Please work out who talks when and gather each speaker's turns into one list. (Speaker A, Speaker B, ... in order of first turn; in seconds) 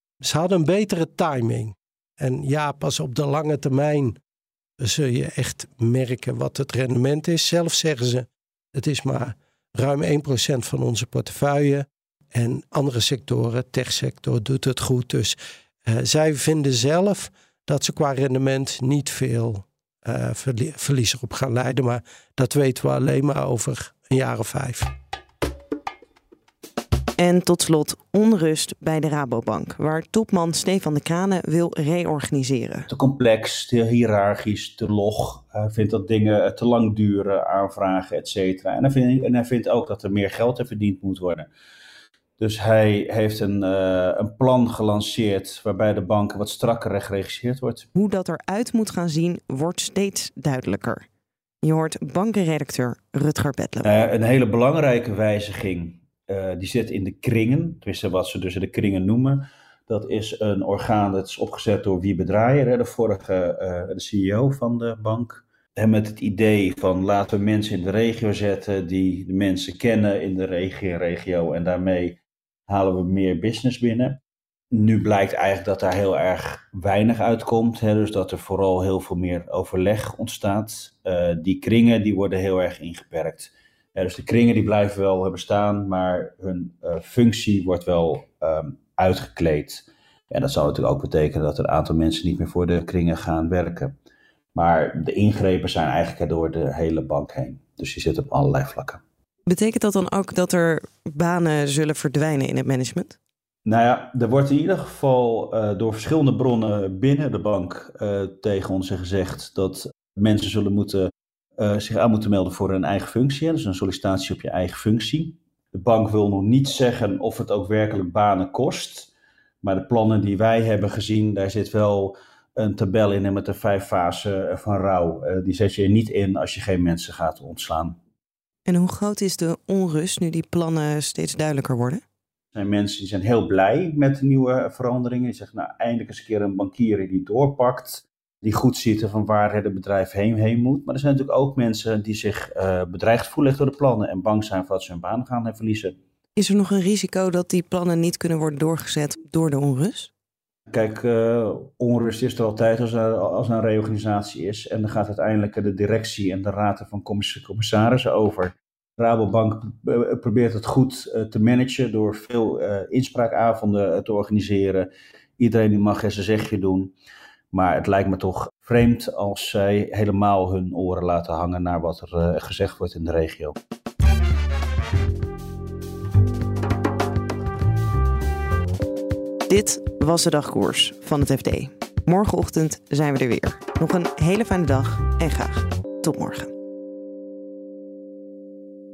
Speaker A: 0.2-4.2, 4.8-24.9
Speaker B: 27.2-32.9, 47.9-51.0, 51.6-54.0, 99.5-103.2, 128.7-132.0, 146.3-150.1, 179.5-186.5
Speaker C: 32.9-41.5, 42.4-47.9, 53.8-74.2, 74.7-93.9, 94.5-99.0, 103.6-111.1, 111.6-119.1, 119.6-128.0, 132.5-145.9, 150.7-164.9, 165.4-166.9, 167.5-173.5